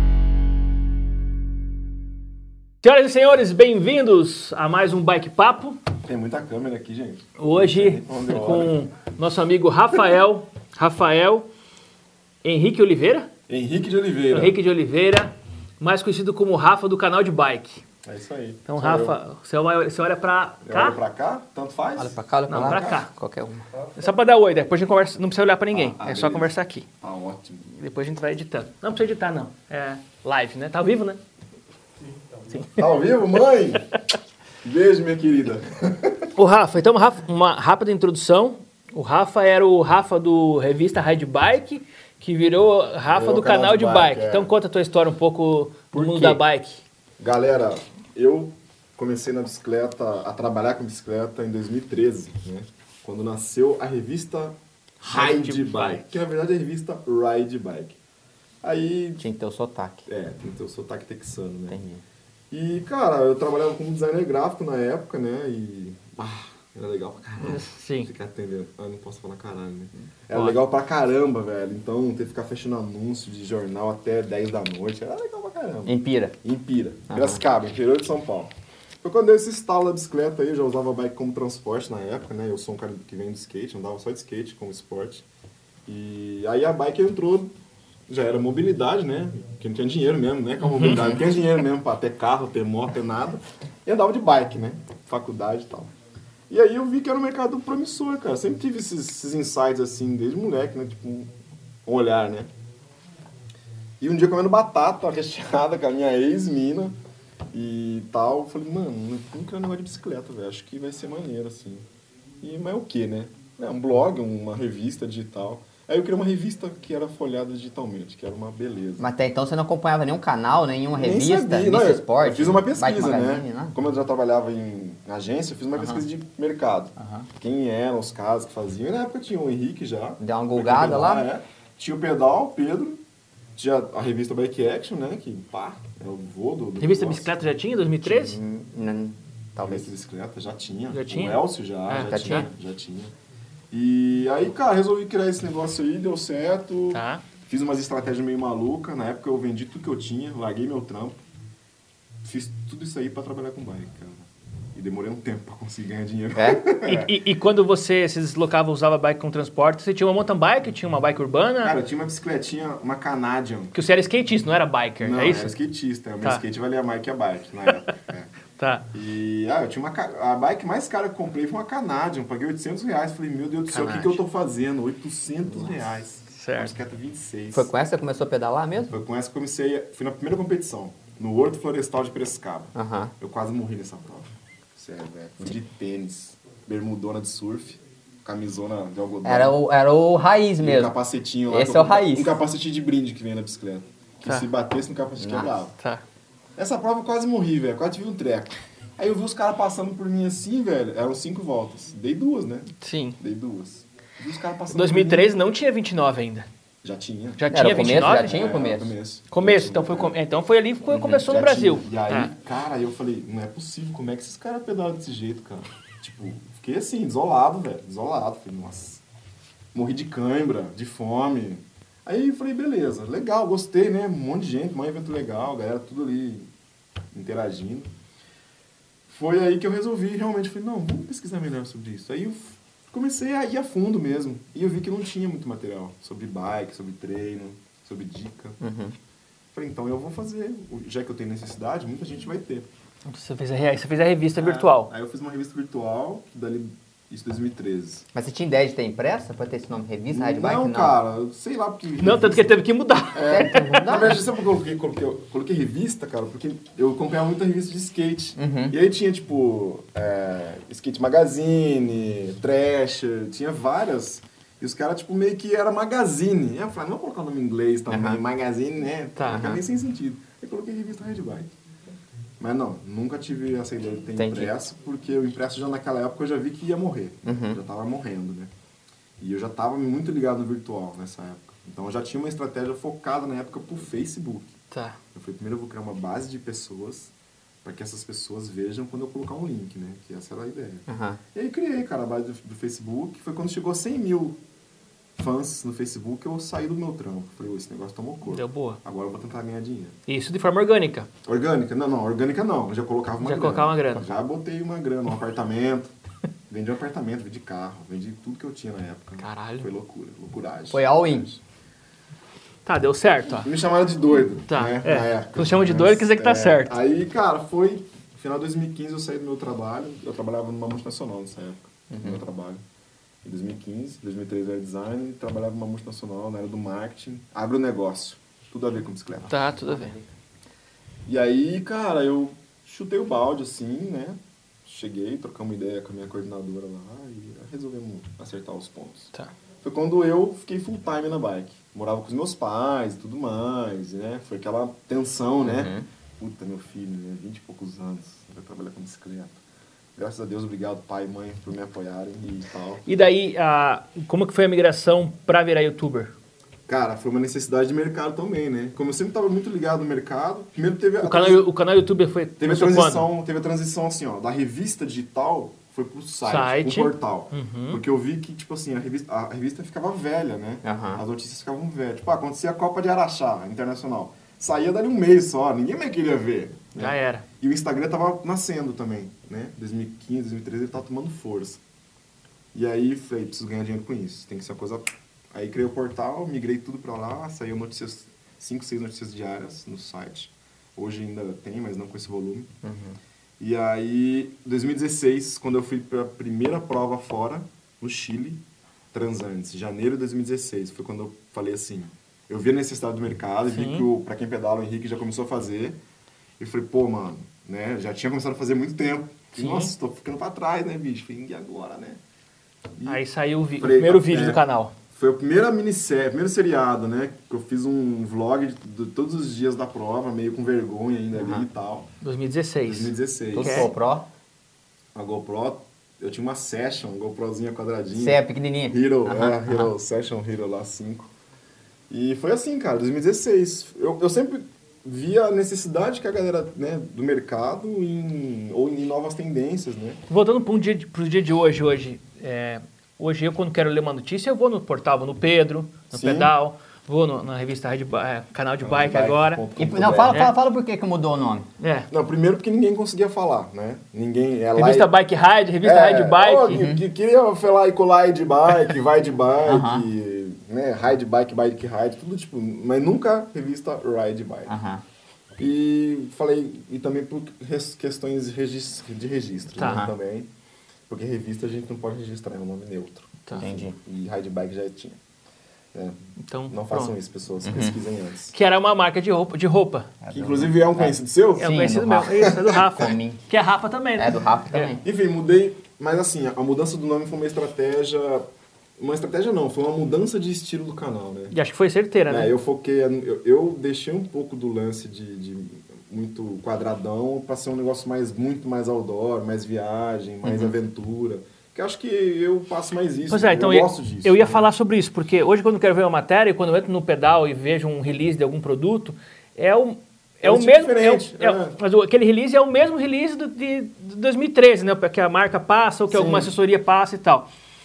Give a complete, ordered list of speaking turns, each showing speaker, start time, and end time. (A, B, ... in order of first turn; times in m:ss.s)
0:02.8-0:05.8 A
0:06.0-0:08.8 B
0:07.4-0:11.5 A
0:12.4-0:13.3 A
0:13.5-0:14.6 B
0:14.3-0:17.8 A
0:18.0-0:19.2 B
0:18.7-0:21.0 A
0:20.6-0:23.0 B
0:22.0-0:23.6 C
0:22.5-0:23.1 A
0:24.0-0:26.9 A
0:25.7-0:27.6 B
0:27.7-0:31.2 A
0:32.5-0:32.7 A
0:32.6-0:33.9 B
0:34.6-0:36.3 B
0:36.4-0:46.8 A
0:43.1-0:44.5 B
0:45.9-0:46.4 C
0:47.2-0:58.0 B
0:55.1-0:56.1 A
0:58.6-0:59.2 B
0:59.2-1:00.1 C
1:00.1-1:01.8 B
1:01.7-1:02.0 C
1:02.5-1:25.2 B
1:07.4-1:08.1 A
1:10.3-1:10.6 A
1:15.9-1:16.3 C
1:17.1-1:17.4 C
1:25.8-1:27.5 B
1:28.1-1:35.9 B
1:30.6-1:31.1 A
1:30.9-1:31.2 C
1:36.5-1:42.5 B
1:44.0-1:47.0 B
1:47.5-1:51.8 B
1:52.4-1:59.0 B
1:59.0-2:03.7 C
2:00.9-2:13.0 B
2:05.8-2:06.0 C
2:07.0-2:07.3 C
2:10.2-2:11.3 C
2:13.5-2:17.3 B
2:16.8-2:18.4 A
2:18.0-2:19.9 C
2:19.6-2:23.1 B
2:20.9-2:22.5 A
2:22.0-2:22.5 C
2:23.7-2:31.2 B
2:26.9-2:27.2 A
2:32.2-2:37.1 B
2:36.4-2:36.6 C
2:36.8-2:41.7 A
2:41.6-2:43.7 B
2:43.7-2:45.5 A
2:45.0-2:48.3 B
2:48.6-2:48.9 A
2:48.9-2:57.7 B
2:53.7-2:54.2 A
2:56.3-2:56.7 A
2:57.5-2:58.9 C
2:58.9-3:09.6 B
3:02.7-3:03.1 C
3:09.2-3:10.9 C
3:10.6-3:15.8 B
3:11.5-3:12.4 C
3:15.2-3:15.5 C
3:16.6-3:25.4 B
3:22.8-3:23.2 A
3:24.7-3:26.5 A
3:26.8-3:30.2 B
3:27.4-3:28.4 A
3:27.5-3:28.9 C
3:29.3-3:32.3 A
3:30.9-3:39.0 B
3:30.9-3:31.2 C
3:39.7-3:46.5 B
3:47.1-3:47.9 B
3:49.1-3:58.6 B
3:58.6-3:59.0 C
3:59.5-4:02.7 B
4:03.1-4:04.9 A
4:04.4-4:08.0 B
4:08.1-4:11.0 C
4:10.1-4:31.5 B
4:12.0-4:14.0 A
4:13.3-4:14.2 C
4:18.4-4:18.7 C
4:27.9-4:28.2 C
4:29.2-4:29.6 A
4:32.4-4:38.5 B
4:34.2-4:34.5 C
4:37.2-4:37.6 C
4:39.2-4:44.6 B
4:44.7-4:45.0 A
4:45.1-4:54.4 B
4:50.9-4:51.2 C
4:55.1-5:00.0 B
4:58.2-4:58.8 A
5:00.1-5:01.1 A
5:01.2-5:05.9 B
5:03.2-5:04.0 A
5:06.5-5:11.4 B
5:09.2-5:09.7 A
5:10.7-5:11.3 C
5:12.6-5:13.5 A
5:13.3-5:22.6 B
5:14.5-5:16.8 A
5:21.9-5:22.2 C
5:23.2-5:29.4 B
5:29.3-5:29.9 A
5:29.4-5:30.1 C
5:31.0-5:49.4 B
5:45.4-5:45.8 C
5:50.0-5:52.8 B
5:52.8-5:56.1 A
5:56.7-6:01.4 B
6:01.0-6:03.1 A
6:02.4-6:21.6 B
6:06.2-6:07.8 A
6:10.6-6:11.0 C
6:16.7-6:17.2 A
6:22.5-6:32.5 B
6:32.6-6:33.0 C
6:33.4-6:38.4 B
6:38.9-6:45.8 B
6:43.5-6:43.9 A
6:46.4-6:52.0 B
6:49.4-6:49.7 A
6:52.8-6:53.0 B
6:52.8-6:54.7 A
6:53.6-7:01.9 B
7:01.1-7:01.4 C
7:02.0-7:03.7 A
7:02.6-7:03.7 B
7:03.3-7:04.0 C
7:04.9-7:11.1 B
7:07.9-7:09.7 C
7:11.9-7:20.0 B
7:20.1-7:29.4 A
7:25.9-7:26.3 B
7:28.6-7:30.2 B
7:29.6-7:31.5 C
7:31.6-7:31.9 A
7:31.9-7:34.9 B
7:34.6-7:36.6 A
7:35.6-7:44.6 B
7:36.5-7:36.8 C
7:39.4-7:39.9 C
7:44.4-7:44.8 C
7:45.4-7:50.3 B
7:49.6-7:49.9 A
7:49.6-7:49.9 C
7:50.9-7:55.0 B
7:53.4-7:53.8 C
7:55.7-7:58.3 B
7:56.2-7:57.0 A
7:57.4-7:57.8 C
7:58.3-7:59.9 A
8:00.0-8:03.2 C
8:00.1-8:02.9 B
8:01.4-8:04.7 A
8:04.0-8:04.8 C
8:04.8-8:08.2 B
8:08.8-8:11.4 B
8:11.3-8:12.3 A
8:12.1-8:24.5 B
8:20.2-8:20.5 C
8:23.1-8:37.3 A
8:30.2-8:31.6 B
8:35.9-8:36.3 B